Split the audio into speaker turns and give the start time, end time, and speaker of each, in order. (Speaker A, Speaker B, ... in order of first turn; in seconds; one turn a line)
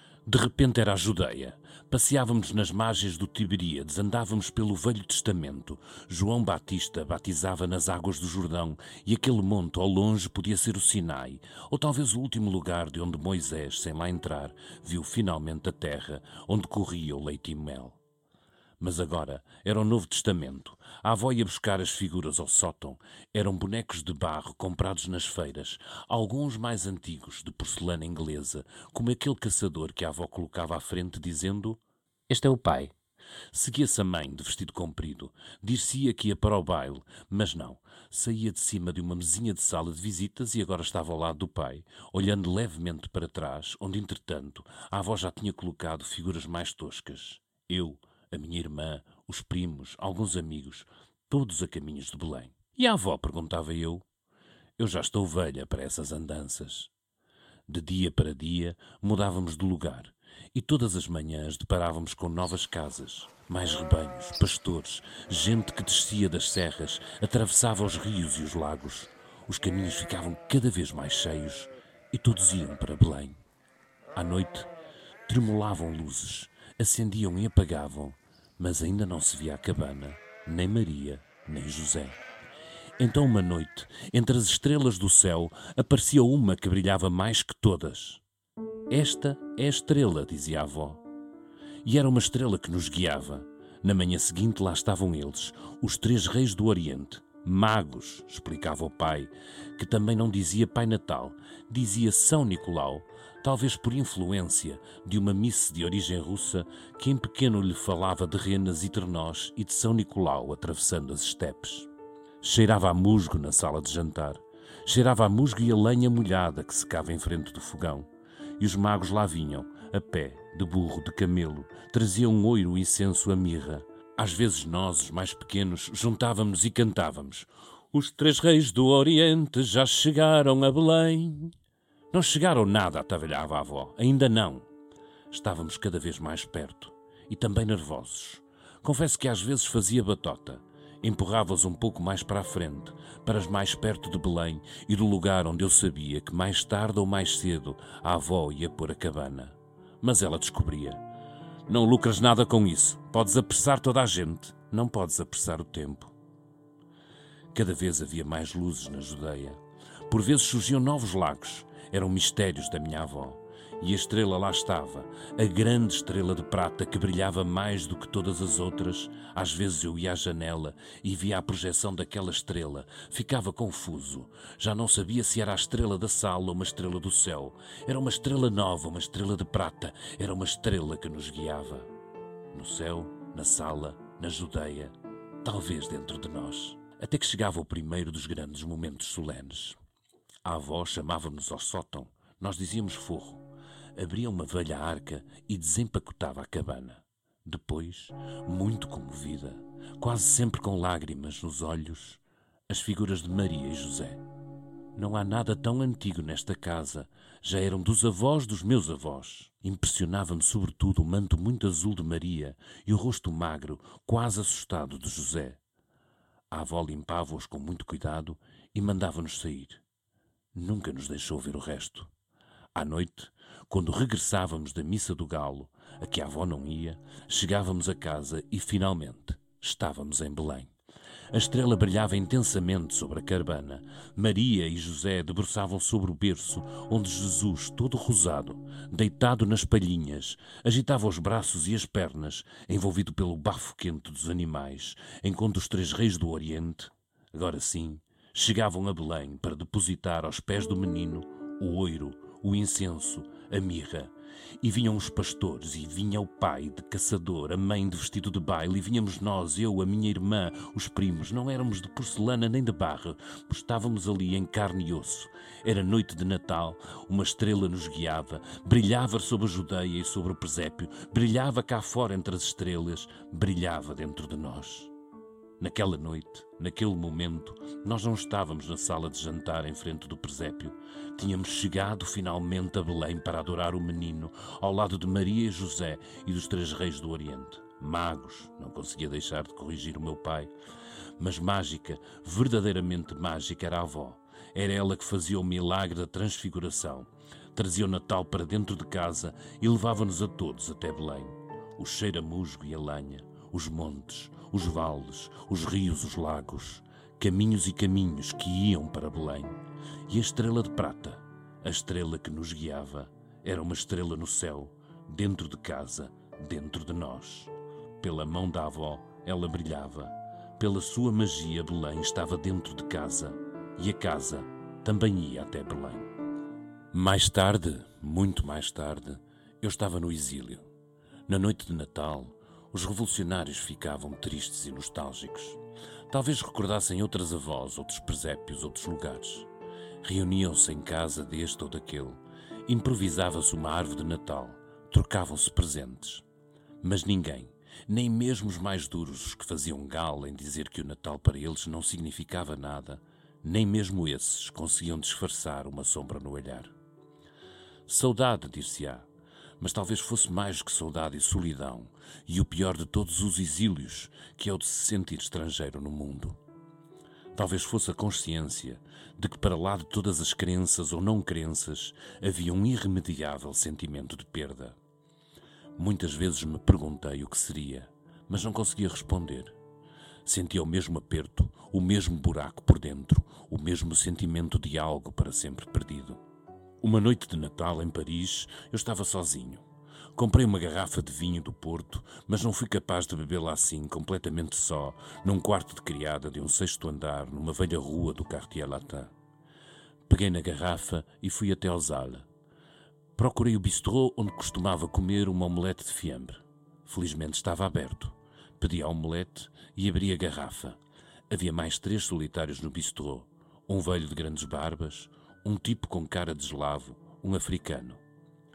Speaker A: 0.3-18.0
Speaker A: 18.8-32.9
Speaker A: 33.5-54.0
Speaker A: 54.8-56.9
Speaker A: 57.7-73.4
Speaker A: 74.2-74.7
Speaker A: 75.3-82.2
Speaker A: 83.0-88.2
Speaker A: 88.9-91.0
Speaker A: 91.8-111.9
Speaker A: 112.4-131.6
Speaker A: 132.1-134.7
Speaker A: 135.3-151.0
Speaker A: 151.7-156.1
Speaker A: 157.5-181.9
Speaker A: 182.5-189.8
Speaker A: 190.4-193.4
Speaker A: 193.9-204.2
Speaker A: 204.9-215.6
Speaker A: 216.5-219.8
Speaker A: 220.6-222.1
Speaker A: 222.8-230.7
Speaker A: 231.3-274.9
Speaker A: 275.6-290.5
Speaker A: 291.2-326.1
Speaker A: 326.9-330.6
Speaker A: 331.3-339.5
Speaker A: 340.0-346.2
Speaker A: 346.8-356.7
Speaker A: 357.9-359.1
Speaker A: 359.6-366.4
Speaker A: 367.4-374.8
Speaker A: 375.8-379.6
Speaker A: 380.2-386.2
Speaker A: 386.8-389.6
Speaker A: 390.2-399.1
Speaker A: 400.1-402.3
Speaker A: 403.2-410.8
Speaker A: 411.3-418.0